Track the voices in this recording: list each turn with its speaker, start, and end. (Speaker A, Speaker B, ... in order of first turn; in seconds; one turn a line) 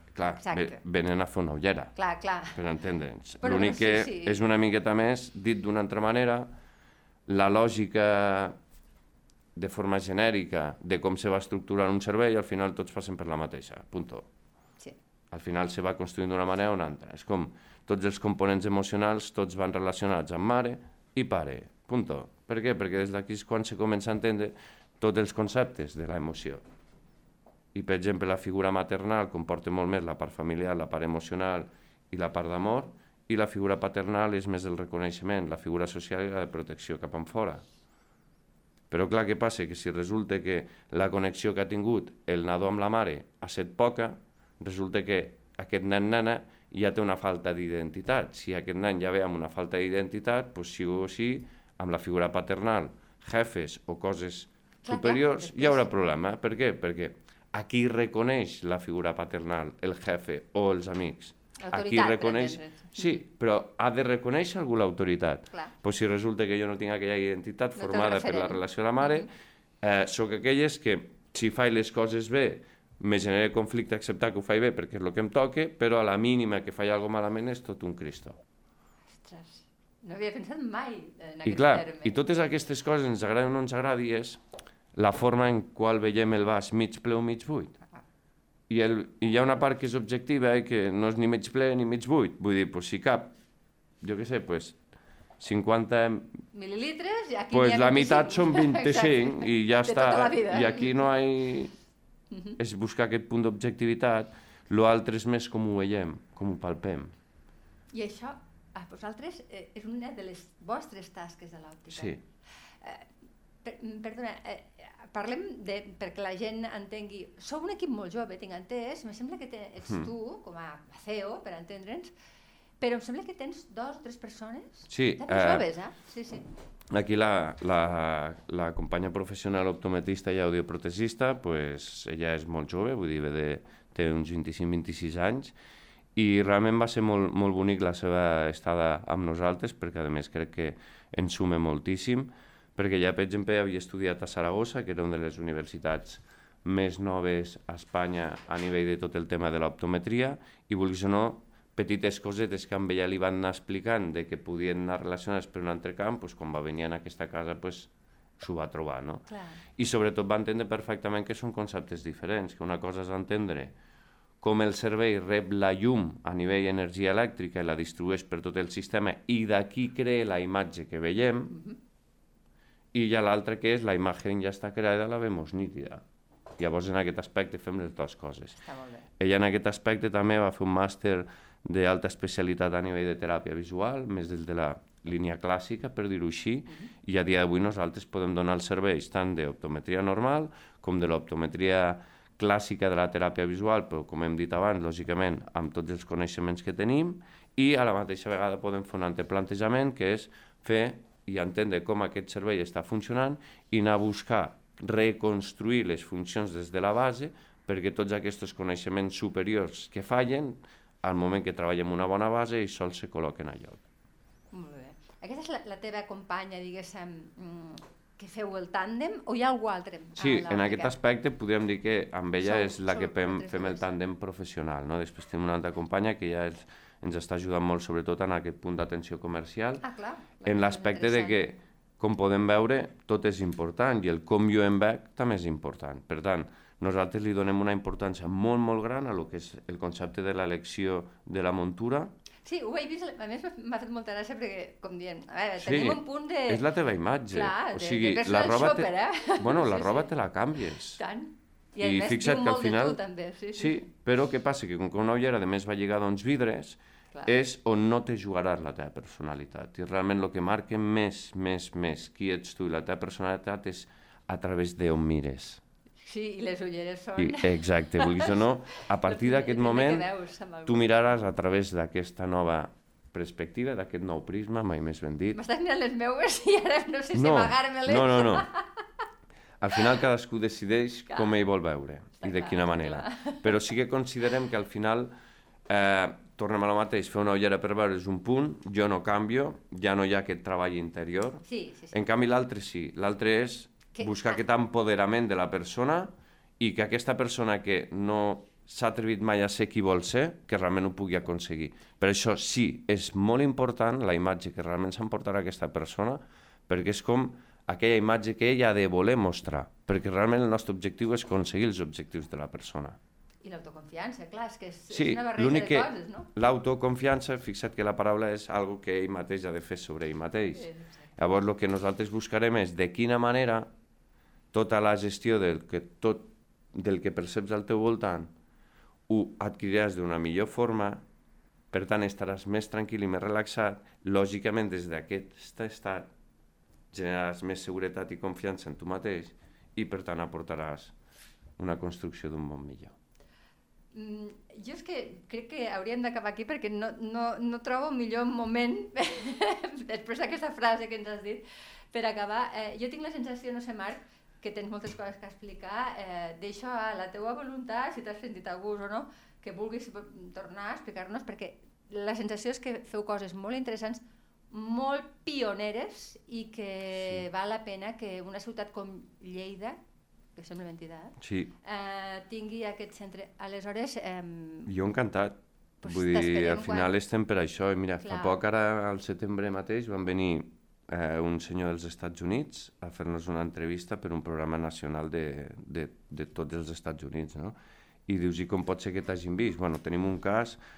Speaker A: 0.1-2.0
Speaker B: 0.3-0.8
Speaker B: 2.0-2.6
Speaker A: 2.5-6.5
Speaker B: 3.4-4.4
Speaker A: 7.3-8.6
Speaker A: 9.6-14.3
Speaker A: 15.3-26.6
Speaker A: 27.7-37.6
Speaker A: 38.9-69.3
Speaker B: 54.9-55.9
Speaker B: 61.6-63.2
Speaker B: 67.8-69.3
Speaker A: 69.8-78.4
Speaker B: 79.1-82.2
Speaker A: 81.5-84.4
Speaker A: 84.9-87.8
Speaker A: 88.7-93.3
Speaker A: 94.0-94.8
Speaker A: 95.4-96.4
Speaker B: 96.5-101.1
Speaker A: 97.5-101.7
Speaker B: 102.3-102.6
Speaker A: 102.6-107.1
Speaker B: 107.9-113.1
Speaker A: 111.9-112.2
Speaker B: 113.6-122.1
Speaker B: 122.8-126.5
Speaker A: 124.9-125.7
Speaker A: 126.9-135.5
Speaker A: 136.2-163.7
Speaker B: 159.3-159.6
Speaker A: 164.4-171.6
Speaker B: 171.5-171.8
Speaker A: 172.9-176.0
Speaker A: 176.6-178.6
Speaker B: 178.6-179.1
Speaker A: 179.2-213.8
Speaker B: 214.5-221.0
Speaker A: 220.2-229.8
Speaker B: 222.4-223.9
Speaker B: 229.8-231.5
Speaker A: 230.4-242.1
Speaker B: 242.4-246.7
Speaker A: 245.6-251.0
Speaker B: 247.3-250.1
Speaker B: 250.9-253.8
Speaker A: 251.8-253.0
Speaker A: 253.5-265.6
Speaker B: 266.0-270.9
Speaker A: 267.2-270.1
Speaker A: 270.7-275.4
Speaker B: 275.3-278.8
Speaker A: 277.1-278.5
Speaker A: 279.6-285.1
Speaker B: 282.2-283.4
Speaker A: 285.7-313.0
Speaker B: 291.4-292.1
Speaker B: 293.9-294.4
Speaker B: 313.4-316.3
Speaker A: 314.9-323.7
Speaker B: 320.6-321.0
Speaker A: 324.5-328.3
Speaker A: 329.1-331.1
Speaker A: 331.7-336.1
Speaker A: 336.9-340.9
Speaker A: 341.6-342.9
Speaker B: 343.9-369.8
Speaker B: 370.4-374.7
Speaker A: 371.2-371.5
Speaker A: 374.7-387.6
Speaker B: 375.8-376.9
Speaker B: 378.0-378.4
Speaker A: 388.1-390.6